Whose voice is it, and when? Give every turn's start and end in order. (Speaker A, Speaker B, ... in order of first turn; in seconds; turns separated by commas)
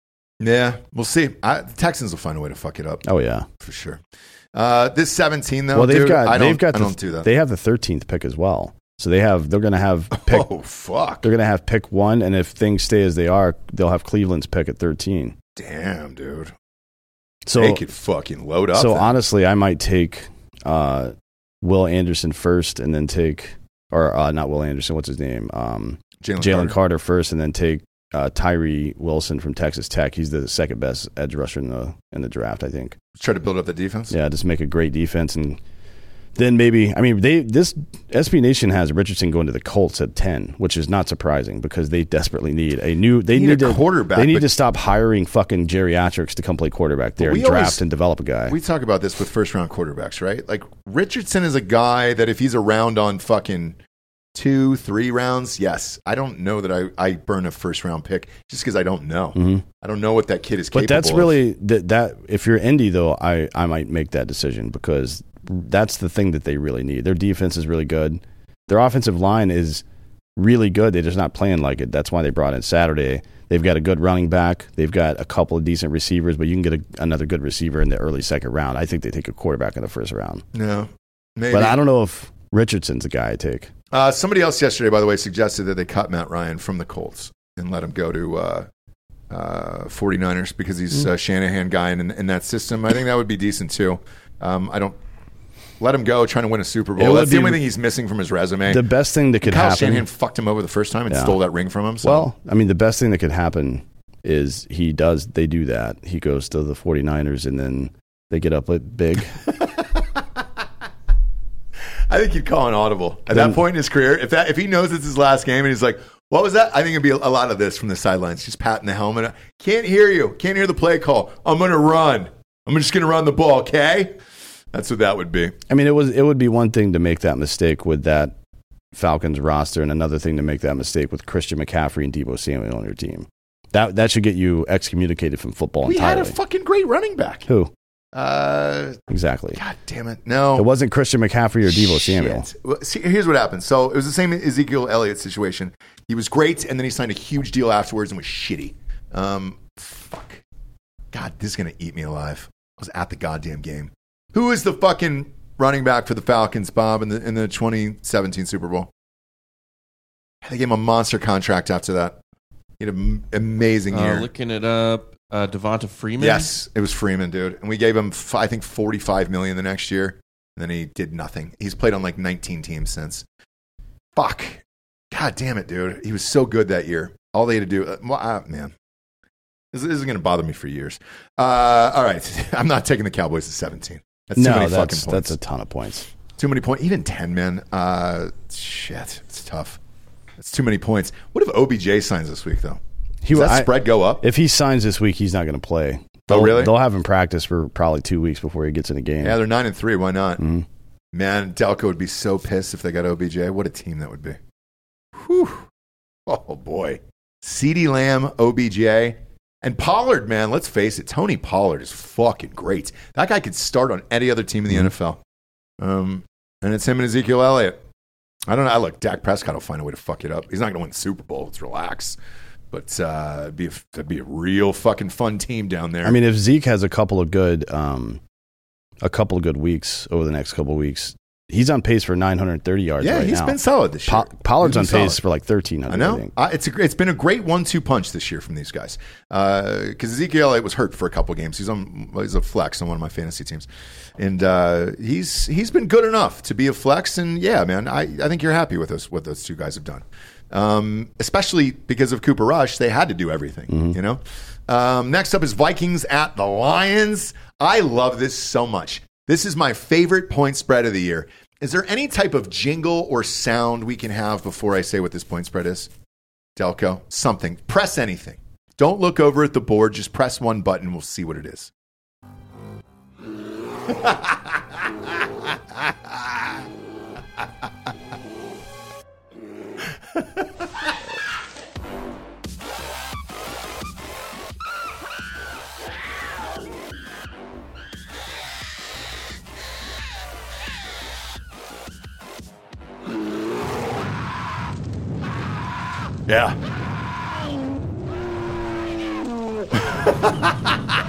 Speaker A: 0.4-3.0, Speaker B: 3.0-3.5, Speaker A: 3.6-4.0, Speaker A: 4.5-7.3, Speaker B: 5.7-10.5, Speaker A: 10.1-11.3, Speaker B: 11.2-15.3, Speaker A: 15.6-16.5, Speaker B: 17.4-17.8, Speaker A: 17.6-19.1, Speaker B: 18.7-33.0, Speaker A: 26.2-26.8, Speaker A: 33.1-34.1, Speaker B: 34.1-35.6, Speaker B: 36.4-48.5, Speaker A: 43.3-44.5, Speaker A: 47.2-47.8, Speaker A: 48.5-53.8, Speaker A: 54.3-61.4, Speaker B: 59.3-59.6, Speaker B: 60.7-69.8, Speaker B: 70.3-80.4, Speaker A: 80.5-81.8, Speaker B: 81.5-83.7, Speaker A: 83.9-88.7, Speaker A: 89.3-95.0, Speaker A: 95.8-98.9, Speaker B: 97.0-97.6, Speaker B: 98.7-100.1, Speaker A: 99.4-102.3, Speaker B: 101.1-101.4, Speaker B: 102.0-109.4, Speaker A: 109.6-110.2, Speaker A: 112.1-124.2, Speaker B: 113.3-113.6, Speaker A: 124.7-125.5, Speaker B: 125.7-128.3, Speaker B: 128.9-136.3, Speaker A: 135.8-137.5, Speaker A: 138.1-139.0, Speaker B: 139.1-139.6, Speaker A: 139.6-140.7, Speaker B: 140.6-142.5, Speaker A: 141.7-150.4, Speaker A: 151.1-158.9, Speaker A: 160.4-162.2, Speaker A: 162.8-164.3, Speaker C: 163.9-166.5, Speaker A: 166.2-173.2, Speaker A: 174.2-178.7, Speaker A: 179.7-185.4, Speaker B: 184.3-186.1, Speaker A: 186.4-189.8, Speaker A: 190.4-192.8, Speaker B: 193.2-199.4, Speaker A: 193.3-194.2, Speaker A: 196.3-196.8, Speaker A: 199.2-200.4, Speaker B: 200.4-200.6, Speaker A: 201.1-204.4, Speaker A: 205.1-205.7, Speaker A: 206.2-215.2, Speaker A: 215.8-217.8, Speaker A: 218.5-222.2, Speaker A: 222.7-226.2, Speaker B: 226.0-228.2, Speaker B: 229.0-236.3, Speaker A: 233.0-235.2, Speaker A: 235.9-243.7, Speaker A: 244.2-265.9, Speaker B: 253.7-253.9, Speaker A: 266.6-271.7, Speaker A: 273.9-276.5, Speaker A: 296.3-296.6, Speaker A: 299.7-300.8